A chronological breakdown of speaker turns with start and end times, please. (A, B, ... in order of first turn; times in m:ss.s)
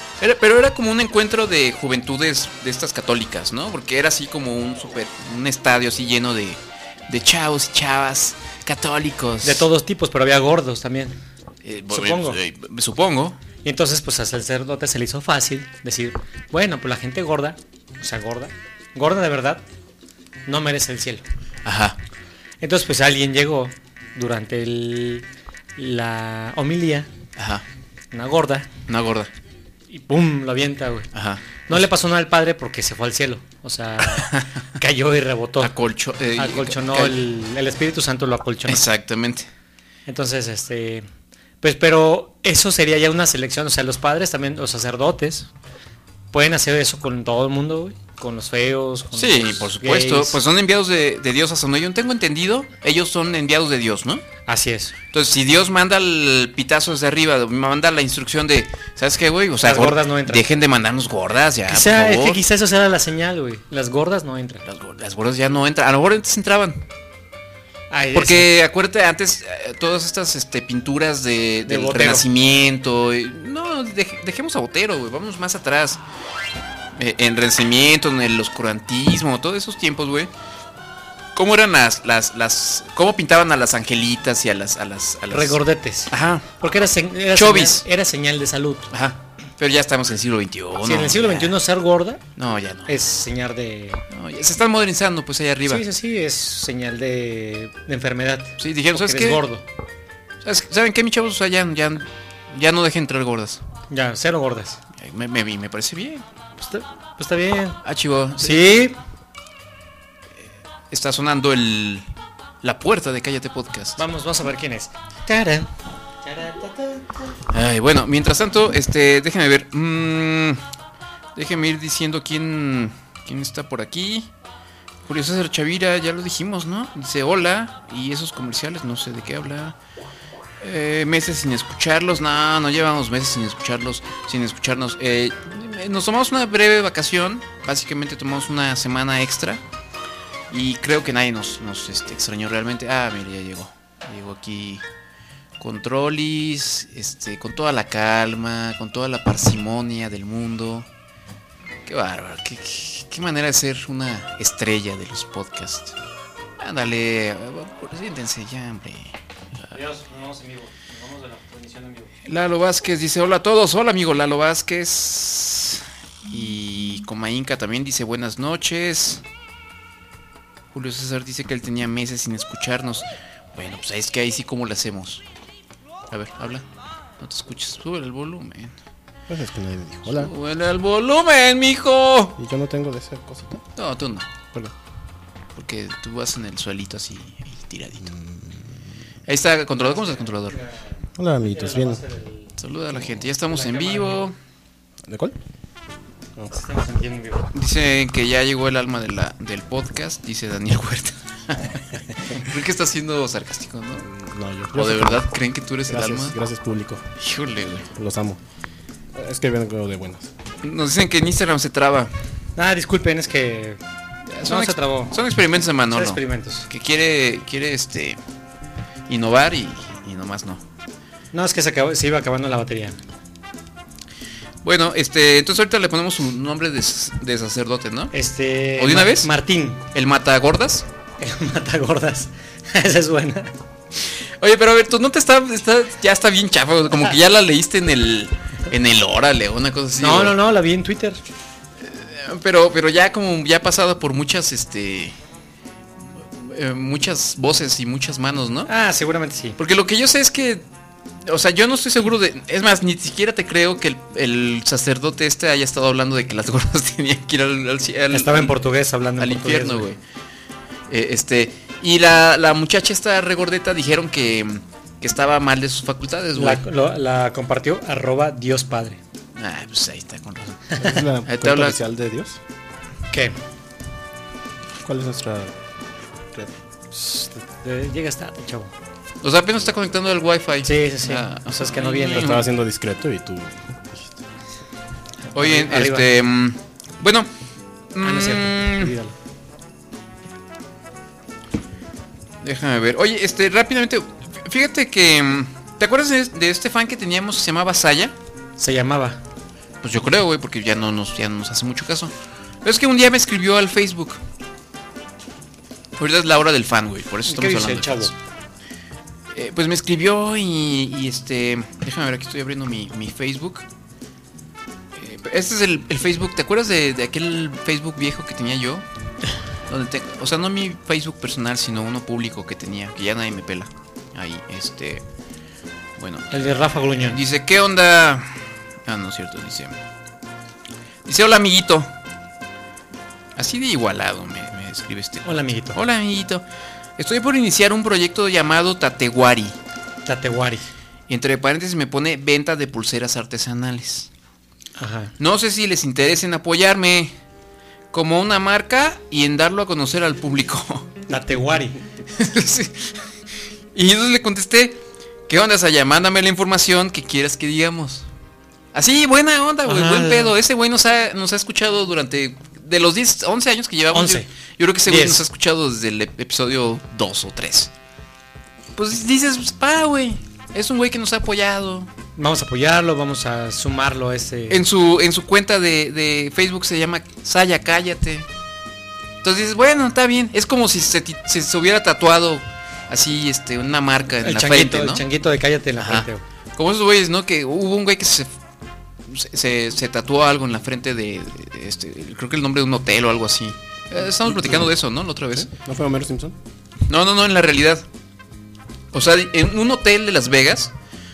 0:00.2-0:09.7 A
0:09.4-0:11.2 B
0:11.6-0:13.4 A
0:11.9-0:12.4 B
0:13.6-0:19.6 B
0:20.4-0:21.2 B
0:21.6-0:22.0 A
0:22.6-0:25.2 B
0:25.8-0:27.1 B
0:27.4-0:27.6 A
0:28.1-0:28.7 B
0:28.9-0:29.3 A
0:29.9-0:31.1 B
0:31.1-0:31.8 A
0:31.7-0:35.7 B
0:34.0-0:34.5 A
0:35.6-0:37.2 A
0:36.4-0:38.8 B
0:38.7-0:39.5 A
0:40.1-0:41.0 B
0:41.6-0:45.5 B
0:46.3-0:50.4 B
0:49.1-0:54.2 A
0:54.5-0:54.9 B
0:55.1-1:02.4 A
0:59.6-1:00.4 B
1:01.7-1:04.6 B
1:04.6-1:06.8 A
1:07.9-1:08.5 B
1:08.1-1:16.0 A
1:11.7-1:12.2 B
1:17.0-1:20.3 A
1:21.3-1:25.6 A
1:25.3-1:28.9 B
1:26.1-1:26.5 A
1:27.3-1:27.8 A
1:28.9-1:31.6 A
1:30.8-1:32.2 B
1:32.4-1:32.9 A
1:32.9-1:34.0 B
1:34.1-1:35.8 A
1:35.6-1:39.6 B
1:38.6-1:39.4 A
1:40.4-1:43.6 A
1:43.9-1:44.8 B
1:45.0-1:46.2 A
1:46.6-1:47.8 B
1:47.8-1:48.8 A
1:48.4-1:49.0 B
1:50.9-1:52.0 A
1:52.6-1:54.0 A
1:54.0-1:55.7 B
1:56.2-1:57.2 B
1:57.5-2:00.6 A
2:01.4-2:04.3 A
2:05.0-2:09.8 A
2:10.6-2:19.6 A
2:20.5-2:24.8 A
2:25.6-2:30.9 A
2:31.8-2:36.0 A
2:36.6-2:39.1 A
2:39.7-2:42.1 B
2:42.2-2:49.2 A
2:50.7-2:55.2 A
2:56.1-2:56.6 A
2:57.2-2:58.7 A
2:59.3-3:00.3 C
3:00.1-3:02.4 A
3:02.4-3:03.6 C
3:03.8-3:04.3 A
3:05.6-3:08.1 A
3:08.0-3:08.7 C
3:09.3-3:10.6 A
3:09.8-3:12.5 B
3:11.2-3:12.0 C
3:12.6-3:14.4 A
3:13.5-3:14.3 B
3:15.0-3:15.4 C
3:16.5-3:17.5 B
3:17.5-3:24.1 A
3:24.0-3:25.3 C
3:24.7-3:26.4 A
3:25.9-3:27.0 C
3:27.2-3:27.9 A
3:27.9-3:28.4 C
3:29.1-3:30.3 C
3:30.6-3:32.1 A
3:32.6-3:33.8 B
3:34.3-3:38.2 A
3:34.4-3:35.1 B
3:35.9-3:36.7 B
3:39.1-3:40.6 A
3:41.3-3:43.0 B
3:44.6-3:48.1 A
3:48.1-3:49.8 B
3:48.8-3:49.3 A
3:49.9-3:50.8 A
3:51.2-3:53.5 B
3:54.0-4:00.4 A
4:00.0-4:01.2 B
4:01.8-4:05.1 A
4:06.3-4:08.7 A
4:08.7-4:09.6 B
4:09.6-4:10.6 A
4:11.2-4:18.5 A
4:18.1-4:19.8 B
4:19.2-4:20.0 A
4:20.9-4:26.6 A
4:26.4-4:29.0 B
4:29.3-4:30.7 A
4:30.8-4:32.4 C
4:31.2-4:31.8 A
4:33.1-4:33.4 B
4:34.8-4:35.5 C
4:36.9-4:38.7 B
4:39.2-4:42.4 A
4:40.6-4:42.3 B
4:42.1-4:44.2 C
4:45.3-4:47.3 A
4:45.3-4:46.0 B
4:47.9-4:48.9 A
4:48.0-4:49.1 B
4:52.4-4:58.1 A
4:58.6-4:59.2 B
4:59.8-5:02.1 A
5:02.6-5:04.2 A
5:06.0-5:08.1 A
5:07.3-5:08.1 B
5:09.3-5:13.6 A
5:14.9-5:18.8 A
5:19.7-5:25.0 A
5:26.0-5:29.8 A
5:26.3-5:27.2 B
5:31.0-5:31.9 A
5:33.4-5:36.4 A
5:35.2-5:35.8 B
5:37.0-5:39.6 A
5:40.0-5:40.7 B
5:41.1-5:44.1 A
5:44.8-5:45.1 B
5:45.2-5:47.1 A
5:47.9-5:51.1 A
5:51.1-5:51.8 B
5:52.1-5:53.0 A
5:53.7-5:58.0 A
5:58.7-6:07.7 A
5:59.6-6:00.3 B
6:03.9-6:04.2 B
6:04.8-6:05.2 B
6:08.8-6:11.9 A
6:12.2-6:14.6 B
6:14.5-6:18.3 A
6:19.2-6:25.0 A
6:24.2-6:26.2 B
6:25.8-6:28.3 A
6:29.1-6:35.5 A
6:34.2-6:34.7 C
6:35.3-6:36.4 C
6:36.9-6:37.8 A
6:38.9-6:40.7 A